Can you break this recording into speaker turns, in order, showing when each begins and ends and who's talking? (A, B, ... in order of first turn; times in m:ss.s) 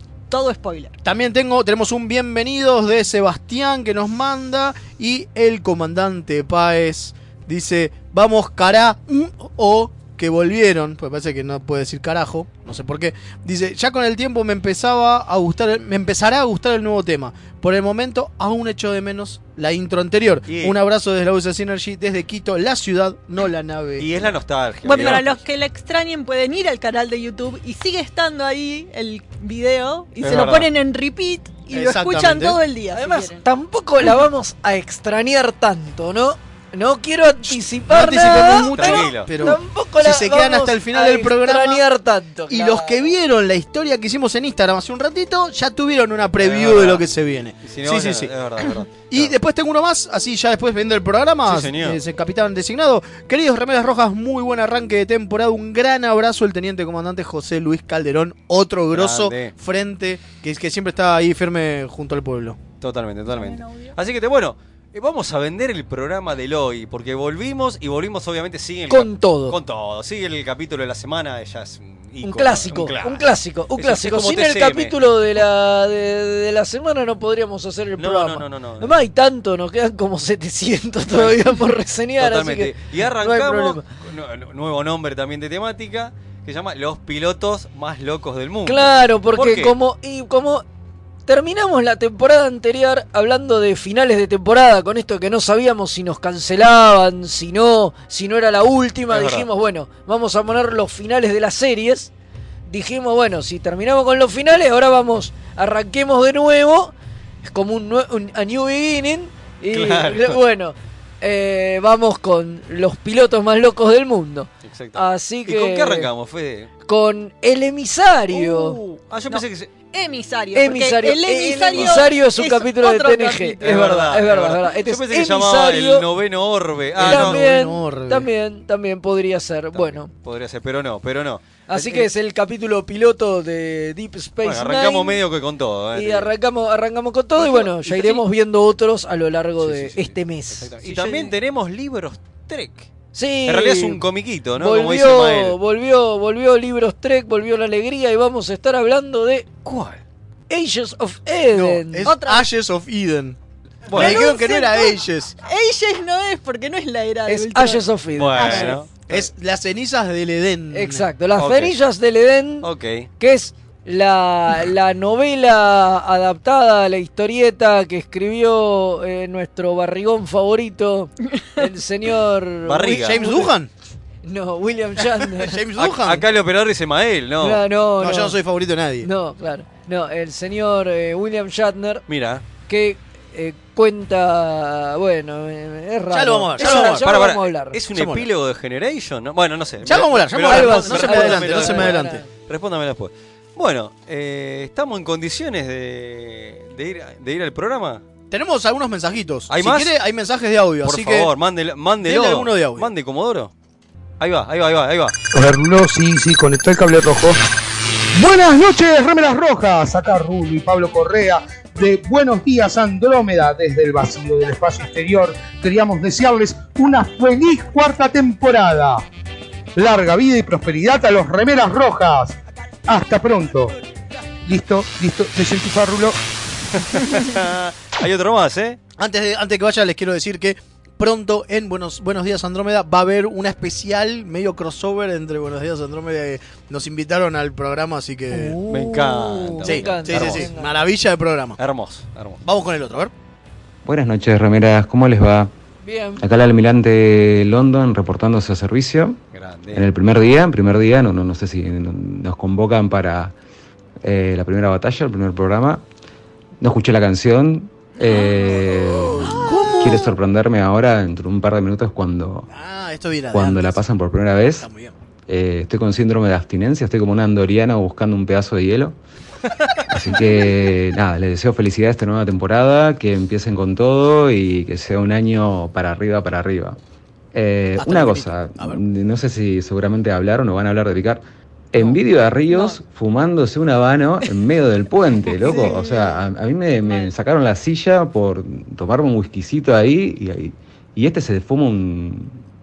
0:00.3-0:01.0 A
0:01.0-0:24.3 B
0:20.5-0:20.8 C
0:24.0-0:25.4 C
0:24.8-0:33.4 A
0:30.2-0:30.7 C
0:31.7-0:32.6 B
0:32.9-0:43.1 D
0:37.8-0:41.8 B
0:38.4-0:39.4 C
0:42.5-0:48.3 B
0:46.4-0:47.0 C
0:47.6-0:49.4 C
0:49.1-1:02.6 B
0:51.4-0:52.0 C
0:58.9-0:59.5 C
1:02.8-1:15.4 C
1:03.3-1:03.9 A
1:08.9-1:09.6 D
1:12.2-1:23.8 D
1:18.0-1:18.9 C
1:21.1-1:21.6 C
1:22.2-1:29.8 C
1:28.7-1:30.6 D
1:31.3-1:42.1 D
1:39.1-1:39.5 C
1:42.7-1:56.1 D
1:49.7-1:50.4 C
1:54.6-1:56.7 C
1:56.9-1:58.8 D
1:58.4-1:59.7 C
1:59.3-2:03.6 A
2:00.6-2:06.1 D
2:01.7-2:02.1 C
2:03.6-2:07.4 C
2:07.0-2:08.3 B
2:07.0-2:10.1 D
2:09.7-2:12.1 C
2:11.7-2:15.2 D
2:14.4-2:16.3 C
2:16.0-2:21.3 D
2:17.4-2:18.2 C
2:19.6-2:22.9 C
2:23.1-2:24.0 D
2:23.5-2:25.6 C
2:24.6-2:29.5 D
2:29.6-2:30.0 C
2:30.5-2:32.2 D
2:31.5-2:33.4 B
2:32.0-2:32.5 A
2:33.9-2:34.3 C
2:33.9-2:35.4 B
2:34.0-2:37.8 A
2:37.3-2:38.8 D
2:38.2-2:39.3 C
2:38.4-2:38.8 A
2:39.1-2:41.1 B
2:40.7-2:53.5 D
2:41.4-2:41.8 C
2:42.6-2:43.1 C
2:52.6-2:53.5 C
2:53.1-2:53.7 B
2:54.2-2:55.6 D
2:55.4-2:56.2 B
2:55.8-2:57.6 C
2:57.4-2:58.4 D
2:58.0-2:59.1 B
2:59.0-3:02.0 D
3:02.1-3:02.4 C
3:02.7-3:07.8 D
3:06.1-3:07.1 B
3:06.6-3:18.0 C
3:07.9-3:08.3 B
3:09.8-3:12.2 B
3:10.5-3:12.2 D
3:18.3-3:21.3 B
3:19.5-3:19.9 C
3:20.8-3:23.5 C
3:22.0-3:22.9 B
3:24.2-3:25.2 C
3:25.4-3:27.4 E
3:28.2-3:39.0 E
3:39.8-3:42.3 E
3:42.9-3:43.7 E
3:44.5-3:46.2 E
3:46.7-3:48.8 C
3:49.0-3:58.6 B
3:58.3-4:00.7 D
3:58.7-4:00.5 C
3:59.7-4:01.6 B
4:01.6-4:02.4 C
4:02.4-4:03.1 B
4:03.8-4:05.5 F
4:05.8-4:06.2 D
4:06.2-4:09.2 F
4:09.3-4:09.8 C
4:09.7-4:13.4 F
4:14.0-4:15.8 F
4:16.6-4:22.5 F
4:18.0-4:18.6 A
4:19.6-4:19.9 B
4:22.5-4:23.8 B
4:23.3-4:24.7 F
4:24.6-4:25.0 B
4:25.3-4:29.0 F
4:29.9-4:36.8 F
4:37.3-4:41.2 F
4:37.8-4:38.8 B
4:41.7-4:52.4 F
4:41.8-4:42.8 A
4:45.3-4:46.2 A
4:46.8-4:47.2 A